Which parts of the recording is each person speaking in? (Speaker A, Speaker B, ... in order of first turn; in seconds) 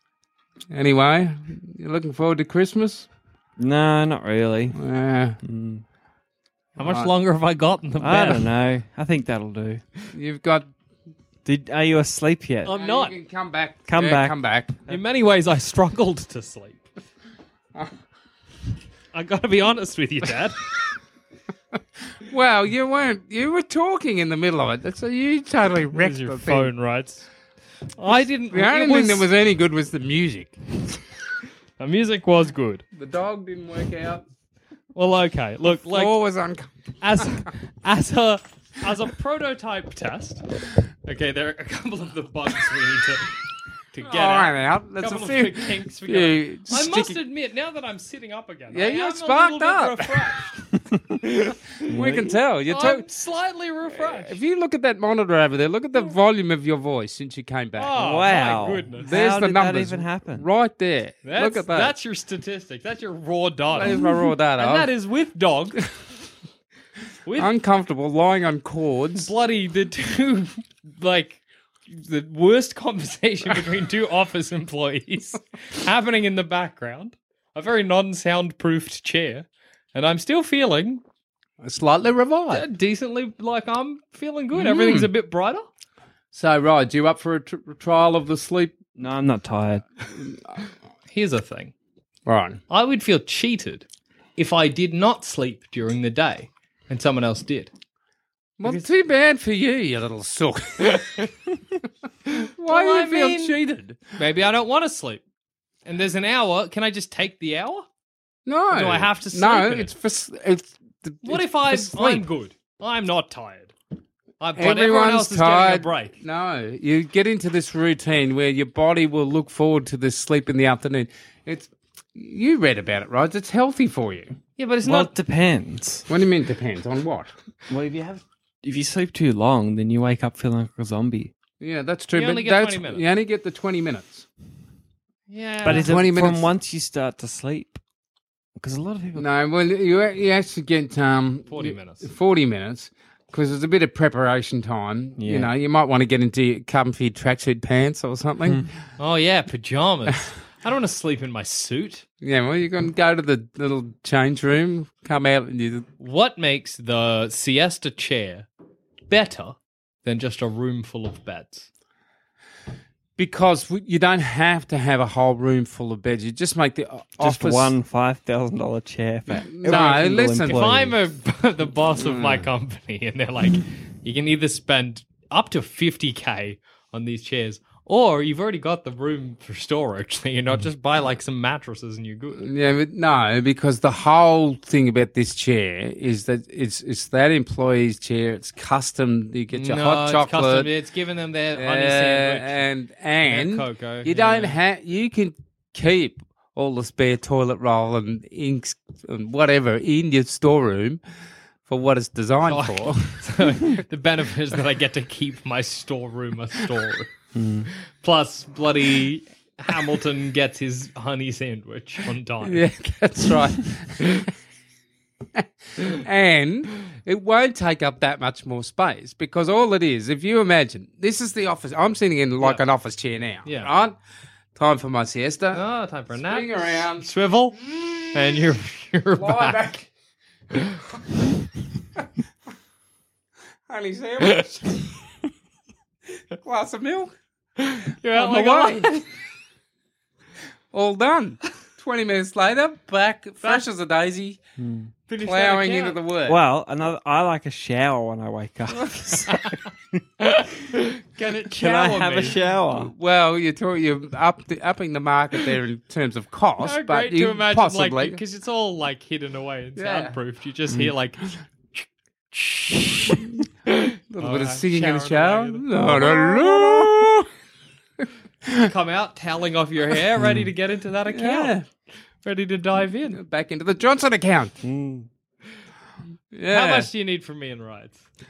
Speaker A: 0.7-3.1, 4.8-5.4, 6.8-7.1, 10.1-10.7, 12.8-14.8, 22.2-26.7, 28.5-30.6, 33.0-34.2, 35.9-36.7, 44.0-47.2, 48.7-50.3, 51.4-53.0, 54.0-58.0, 59.0-61.9, 63.7-64.9, 67.4-69.3, 81.6-82.6, 84.5-85.1, 86.3-88.8, 90.3-90.5, 92.3-92.6, 98.6-101.2, 102.4-104.0, 108.5-112.3, 114.6-124.4, 126.1-127.3, 131.6-134.2, 135.6-136.5, 139.2-148.7, 152.2-155.9, 163.2-167.7, 169.5-170.6, 172.0-172.5, 182.4-190.7, 191.6-201.0, 201.7-203.2, 212.4-214.3, 215.4-224.0, 224.6-225.6, 226.2-227.1, 227.7-228.1, 229.2-229.9, 233.7-234.8, 236.3-237.2, 238.1-239.0, 240.7-244.4, 245.2-246.4, 252.7-258.2, 259.8-260.2, 264.1-267.3, 271.1-271.6, 273.1-274.6, 276.3-276.9
Speaker B: 3.6-4.8, 5.4-5.8, 8.0-9.8, 11.4-12.7, 13.9-14.4, 51.9-52.4, 58.0-60.5, 89.0-89.8, 124.8-126.1, 127.7-131.3, 135.6-137.8, 138.6-139.3, 145.2-145.5, 167.2-171.0, 207.3-207.7, 244.6-244.9, 246.3-250.0, 251.5-252.9, 265.8-267.1, 270.2-270.5, 274.6-275.1
Speaker C: 6.8-8.5, 12.6-13.2, 14.9-16.8, 19.1-20.7, 25.9-27.3, 28.0-29.3, 31.8-32.9, 34.9-36.2, 37.0-40.5, 41.0-43.4, 43.9-50.6, 52.7-54.4, 57.8-59.1, 61.2-65.9, 69.2-81.0, 82.5-85.7, 91.1-91.7, 92.7-97.7, 102.3-103.6, 104.2-105.2, 105.8-107.9, 108.7-109.9, 111.2-113.7, 114.4-116.2, 124.6-125.1, 132.1-133.1, 135.3-136.0, 141.5-142.1, 149.0-152.1, 156.0-158.5, 159.1-161.7, 169.7-182.4, 189.5-192.7, 193.3-194.6, 202.5-207.1, 208.0-212.7, 223.4-223.7, 225.5-229.7, 237.6-239.0, 245.1-246.0, 249.3-249.6, 250.2-252.4, 256.6-263.2, 263.7-266.2, 268.5-271.6, 272.2-273.2, 276.5-278.0